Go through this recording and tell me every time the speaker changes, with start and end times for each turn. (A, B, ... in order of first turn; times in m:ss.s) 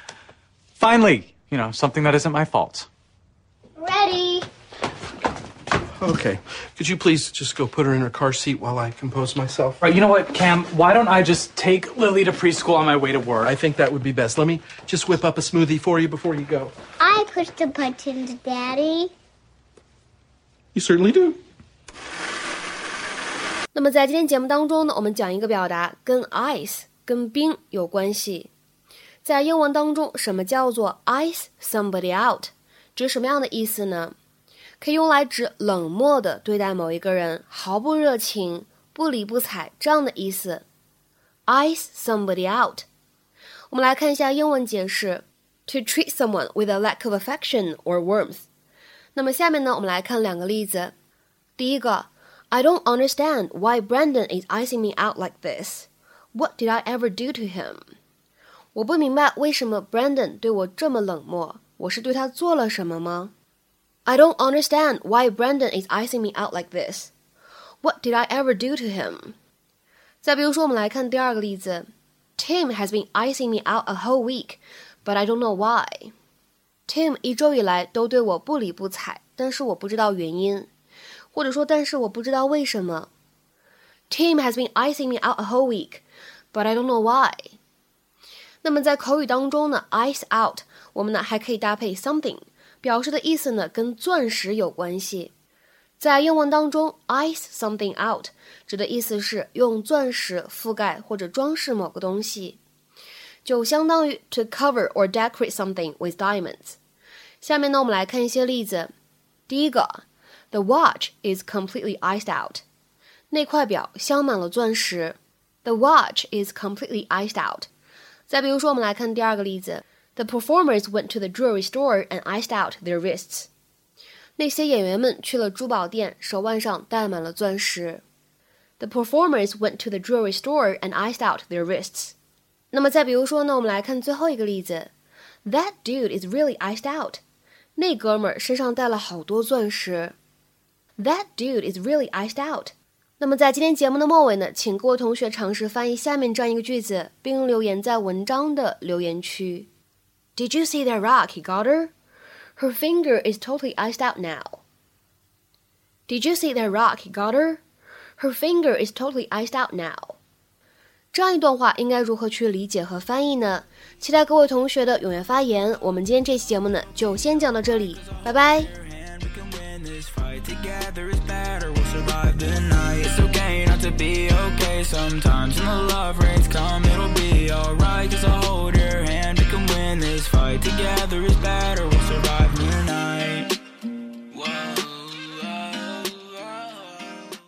0:00.8-0:02.9 A
0:03.8-0:04.5 B
0:06.0-0:09.8 C
0:09.8-0:13.5 A
0:13.4-0:16.7 C
0:17.0-0:19.1 B
0:20.7-0:21.4 C
0:23.7-0:28.5 D
0:29.2-0:34.2 D
0:34.8-0:40.6 D
0:41.5-0:42.9 D
0:43.7-0:48.5 D
0:49.2-0:50.9 D
0:51.6-0:57.9 D
0:58.8-1:03.3 D
1:04.1-1:07.1 D
1:07.8-1:09.4 D
1:10.2-1:16.1 D
1:16.9-1:20.7 D
1:21.3-1:23.1 D
1:24.1-1:27.6 D
1:28.6-1:35.3 D
1:36.0-1:42.6 D
1:43.4-1:46.8 D
1:47.4-1:48.9 D
1:49.5-1:52.6 D
1:53.3-1:57.7 D
1:58.3-2:03.5 D
2:04.4-2:08.0 D
2:08.8-2:12.2 D
2:12.7-2:14.9 D
2:15.4-2:17.2 D
2:17.8-2:20.2 D
2:21.0-2:29.7 D
2:30.4-2:31.9 D
2:32.6-2:34.6 D
2:36.1-2:37.6 D
2:38.2-2:40.2 D
2:41.1-2:48.7 D
2:47.2-3:03.5 E
3:04.3-3:07.2 E